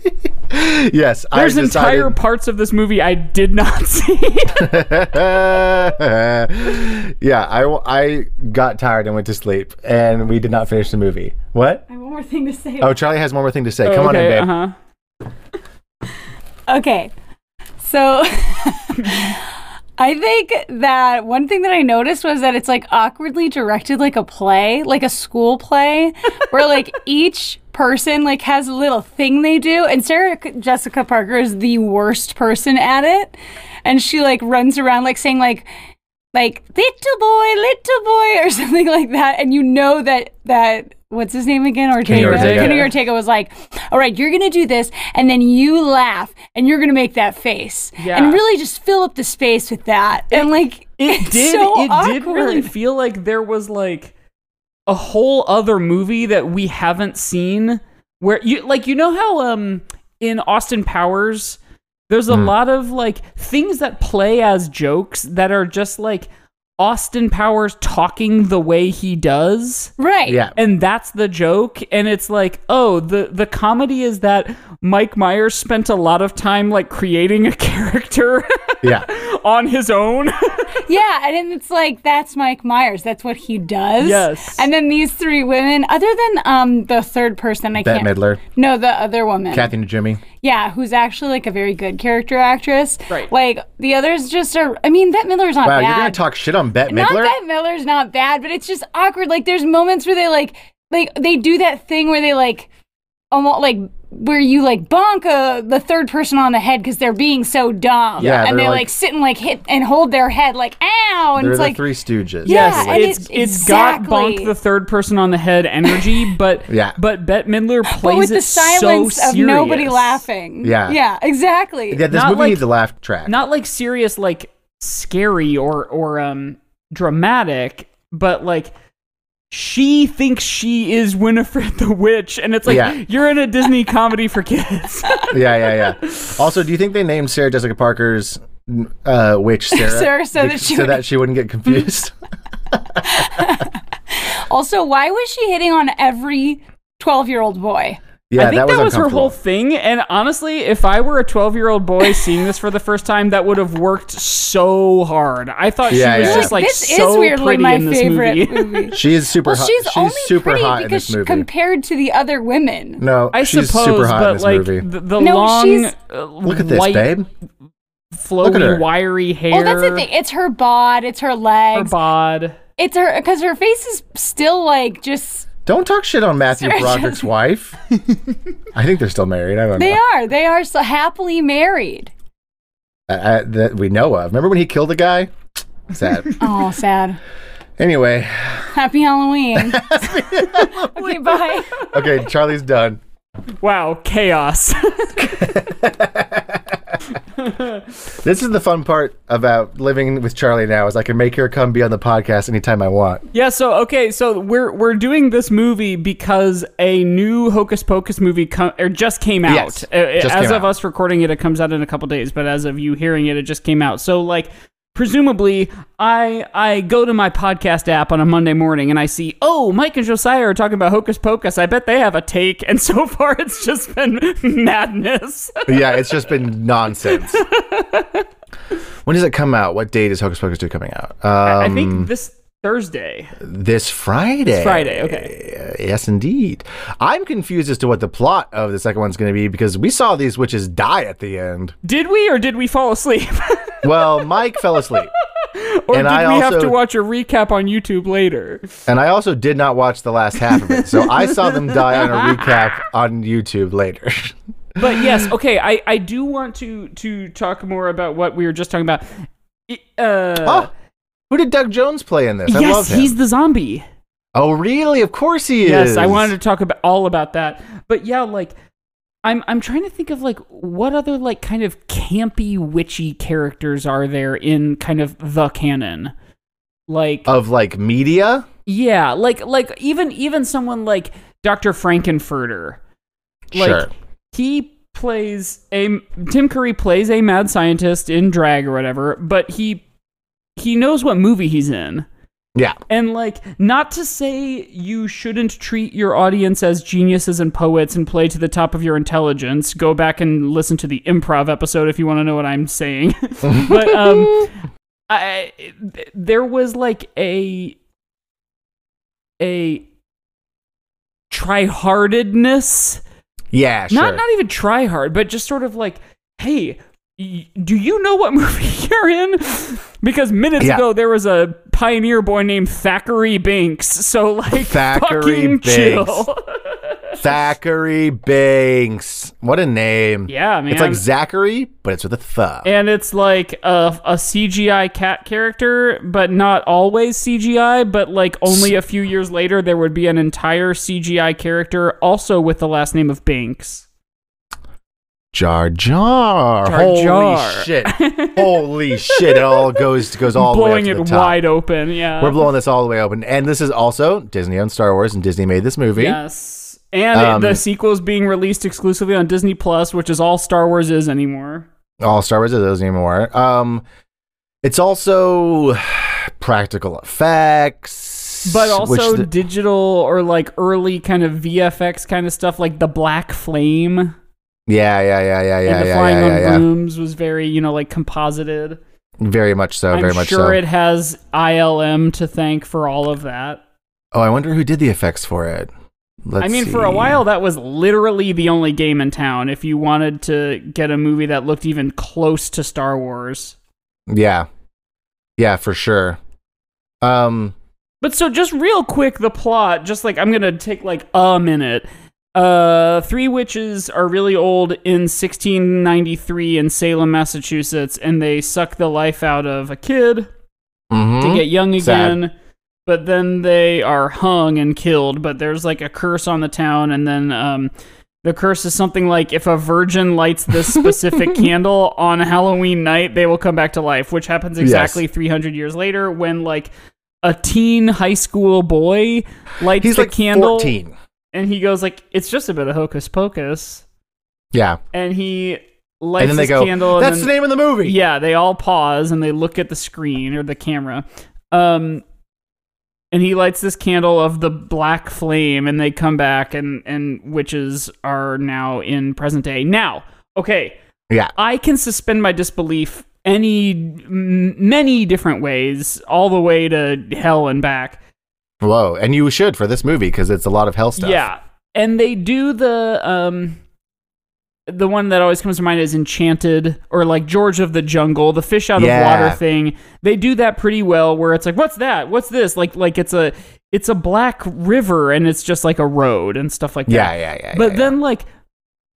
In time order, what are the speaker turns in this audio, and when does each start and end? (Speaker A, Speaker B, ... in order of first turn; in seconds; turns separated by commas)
Speaker A: 0.5-2.1, Speaker B: 1.3-4.7, Speaker A: 4.6-11.8, Speaker C: 11.9-13.0, Speaker A: 12.8-14.5, Speaker B: 13.8-14.7, Speaker C: 16.7-17.1, Speaker C: 17.8-35.7, Speaker C: 36.3-52.7, Speaker A: 42.1-42.8, Speaker B: 42.1-42.9, Speaker B: 48.0-48.4, Speaker B: 50.3-54.1, Speaker B: 54.9-69.9, Speaker C: 70.0-70.4, Speaker A: 70.3-70.5, Speaker B: 70.5-80.8, Speaker C: 80.8-89.7, Speaker B: 84.0-84.7, Speaker A: 87.8-88.4, Speaker A: 89.5-90.2, Speaker C: 90.4-96.2, Speaker A: 95.6-97.3, Speaker C: 96.9-102.7, Speaker C: 103.3-111.8, Speaker A: 108.2-108.9, Speaker A: 111.4-113.0, Speaker C: 112.4-114.5, Speaker B: 112.5-120.2, Speaker A: 116.7-117.0, Speaker C: 117.8-122.0, Speaker A: 120.6-121.0, Speaker A: 121.9-123.3, Speaker B: 122.1-122.6, Speaker B: 123.2-128.7, Speaker B: 129.5-135.4, Speaker A: 132.7-133.0, Speaker A: 135.3-142.1, Speaker C: 139.7-141.0, Speaker C: 143.0-148.0, Speaker A: 148.3-149.3, Speaker B: 148.3-158.9, Speaker A: 155.9-156.6, Speaker C: 156.2-163.0, Speaker A: 158.9-161.5, Speaker A: 163.0-164.8, Speaker B: 163.3-167.1, Speaker C: 165.2-165.9, Speaker A: 166.4-167.3, Speaker B: 168.2-170.1, Speaker A: 168.4-168.8, Speaker C: 169.5-171.9, Speaker B: 171.7-172.6, Speaker C: 172.8-175.5, Speaker A: 175.7-177.8, Speaker C: 176.5-177.3, Speaker A: 178.7-180.0, Speaker C: 179.8-182.1, Speaker A: 183.1-185.3, Speaker A: 185.9-186.3, Speaker C: 186.4-187.2, Speaker A: 187.8-188.7, Speaker C: 188.7-191.7, Speaker A: 189.6-190.9, Speaker A: 191.9-193.0, Speaker B: 193.6-195.4, Speaker A: 195.2-197.0, Speaker B: 197.4-197.8, Speaker A: 198.2-203.2, Speaker B: 203.3-226.1, Speaker A: 209.5-210.7, Speaker A: 225.7-227.4, Speaker B: 227.1-228.2, Speaker A: 229.1-232.1, Speaker B: 231.4-233.3, Speaker A: 233.4-241.7, Speaker B: 234.5-235.3, Speaker B: 241.8-243.8, Speaker A: 243.8-245.1, Speaker B: 245.4-248.7, Speaker A: 245.9-246.8, Speaker A: 248.9-254.3, Speaker B: 250.5-252.5, Speaker B: 254.8-259.1, Speaker A: 255.0-255.2, Speaker B: 259.7-260.7, Speaker A: 260.4-260.7, Speaker A: 261.3-263.1, Speaker B: 262.5-263.8, Speaker A: 264.3-266.3, Speaker B: 265.6-268.5, Speaker B: 269.2-276.1, Speaker B: 276.9-277.3, Speaker A: 277.2-278.4, Speaker B: 278.6-282.8, Speaker A: 283.5-283.9, Speaker B: 283.5-289.8, Speaker B: 290.6-292.1, Speaker B: 292.9-304.5, Speaker A: 303.4-304.5, Speaker B: 305.1-307.8, Speaker B: 309.4-309.8, Speaker B: 311.3-313.0, Speaker A: 313.5-314.2, Speaker B: 313.9-327.2, Speaker A: 324.5-326.2, Speaker A: 327.2-332.7, Speaker B: 330.3-331.0, Speaker B: 332.6-343.8, Speaker A: 338.5-338.7, Speaker A: 345.3-351.4, Speaker B: 346.6-349.8, Speaker B: 350.3-352.4, Speaker A: 352.2-356.2, Speaker B: 355.9-361.6, Speaker A: 357.1-357.6, Speaker A: 362.0-363.8, Speaker A: 364.6-369.3, Speaker B: 368.4-374.1, Speaker A: 374.7-376.6, Speaker B: 375.6-378.8, Speaker A: 379.2-380.6, Speaker B: 379.9-383.6, Speaker A: 384.1-385.7, Speaker A: 386.2-387.2, Speaker B: 386.4-393.6, Speaker A: 394.1-394.5, Speaker A: 395.4-396.2, Speaker A: 397.0-397.5, Speaker B: 398.0-410.3, Speaker A: 410.9-412.2, Speaker B: 411.2-412.3, Speaker B: 412.9-417.7, Speaker B: 418.2-426.7, Speaker A: 424.6-425.0, Speaker B: 427.2-430.7, Speaker A: 429.8-430.9, Speaker B: 431.3-433.8, Speaker A: 434.5-434.8, Speaker B: 434.9-437.3, Speaker A: 436.2-437.9, Speaker B: 437.8-442.0, Speaker B: 443.1-450.8, Speaker B: 451.4-458.0, Speaker A: 458.6-461.2, Speaker B: 461.0-463.6, Speaker B: 464.7-478.2, Speaker A: 468.8-469.4, Speaker A: 476.9-477.9